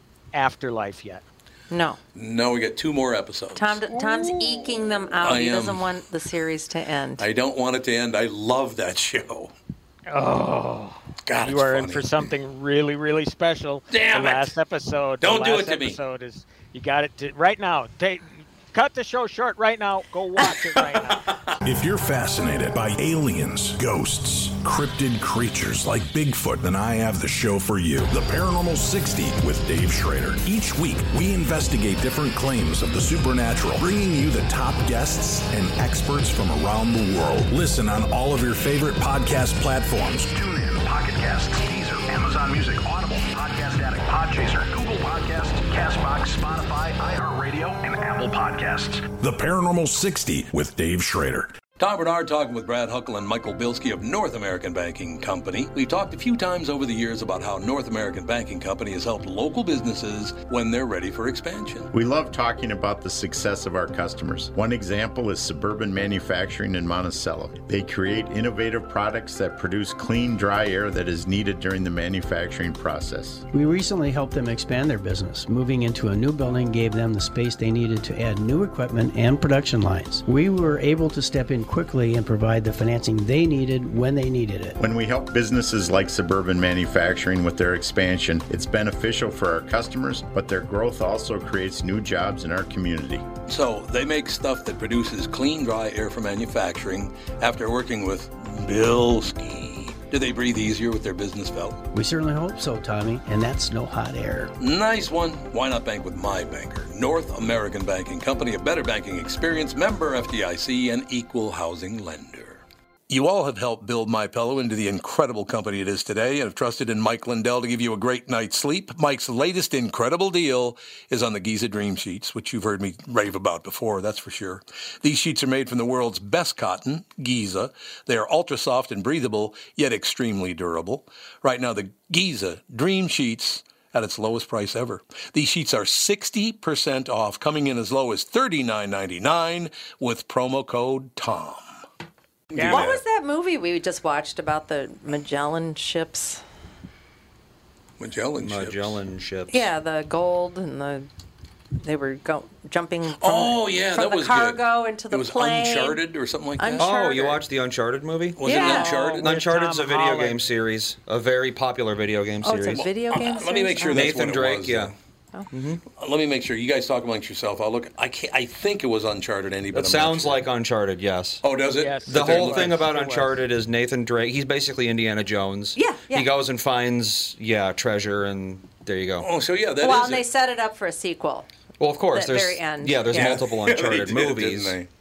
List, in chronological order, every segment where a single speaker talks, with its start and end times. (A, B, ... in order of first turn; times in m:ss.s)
0:00.3-0:01.2 A
0:01.7-0:02.0 B
0:02.2-0:03.8 C
0:03.6-0:07.3 B
0:03.9-0:04.9 A
0:05.2-0:05.9 C
0:07.2-0:09.5 C
0:10.1-0:21.3 A
0:11.3-0:12.3 C
0:13.9-0:14.6 C
0:15.2-0:16.0 C
0:21.6-0:51.6 D
0:51.8-1:01.9 C
1:01.9-1:13.4 E
1:13.5-1:24.8 F
1:24.8-1:33.2 E
1:33.5-1:41.8 C
1:41.9-1:44.5 F
1:44.6-2:21.7 C
2:22.5-2:23.0 C
2:22.5-2:22.9 A
2:22.7-2:26.4 B
2:28.0-2:29.0 C
2:28.4-2:29.7 G
2:29.5-2:31.1 B
2:31.8-2:36.0 B
2:33.2-2:36.9 C
2:36.6-2:37.4 B
2:36.8-2:42.9 G
2:38.4-2:39.4 C
2:38.4-2:39.0 B
2:38.5-2:40.4 A
2:42.4-2:44.2 B
2:42.8-2:44.9 C
2:43.9-2:44.9 G
2:45.5-2:45.8 G
2:46.0-2:50.4 C
2:49.7-2:51.4 G
2:51.4-2:52.9 C
2:51.8-2:53.4 A
2:52.1-2:59.3 G
2:55.8-2:56.3 B
2:59.2-3:00.2 C
2:59.8-3:01.5 B
3:01.8-3:04.8 G
3:02.1-3:03.4 B
3:03.1-3:04.9 C